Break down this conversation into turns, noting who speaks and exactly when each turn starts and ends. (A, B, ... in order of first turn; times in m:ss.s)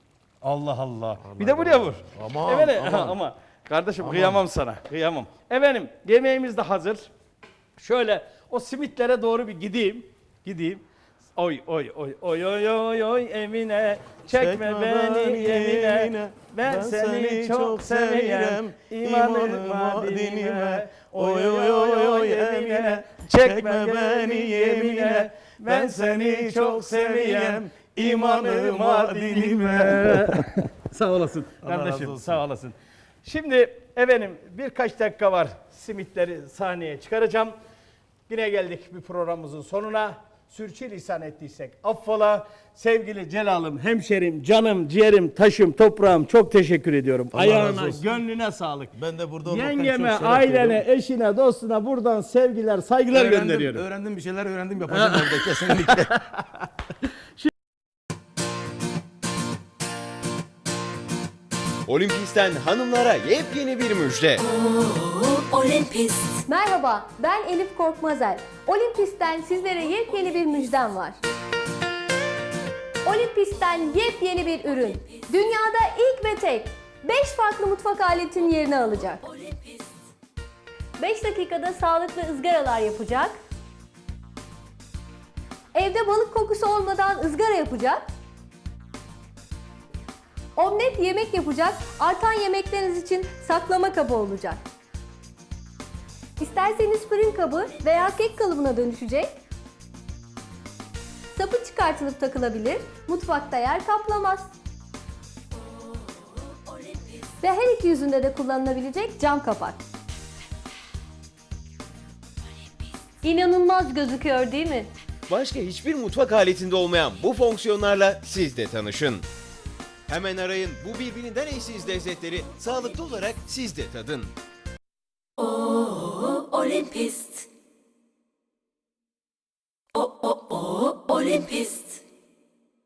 0:00.4-0:07.1 A
0:01.2-0:03.2 B
0:04.0-0:04.5 B
0:07.8-0:10.8 A
0:11.4-0:37.5 A
0:14.3-0:30.4 B
0:31.6-0:32.4 B
0:38.3-0:48.9 A
0:47.3-0:48.2 B
0:48.9-0:50.8 B
0:49.4-0:53.8 A
0:53.1-0:56.1 B
0:54.9-0:56.4 A
1:01.9-1:04.4 C
1:05.1-1:06.4 D
1:06.5-1:11.2 E
1:13.0-1:19.2 E
1:21.0-1:23.4 E
1:25.7-1:28.1 E
1:30.6-1:34.6 E
1:36.4-1:39.4 E
1:41.3-1:44.5 E
1:47.4-1:49.8 E
1:53.2-1:54.9 E
1:55.3-1:59.3 C
2:00.1-2:04.3 C
2:06.5-2:07.4 D
2:11.0-2:12.0 D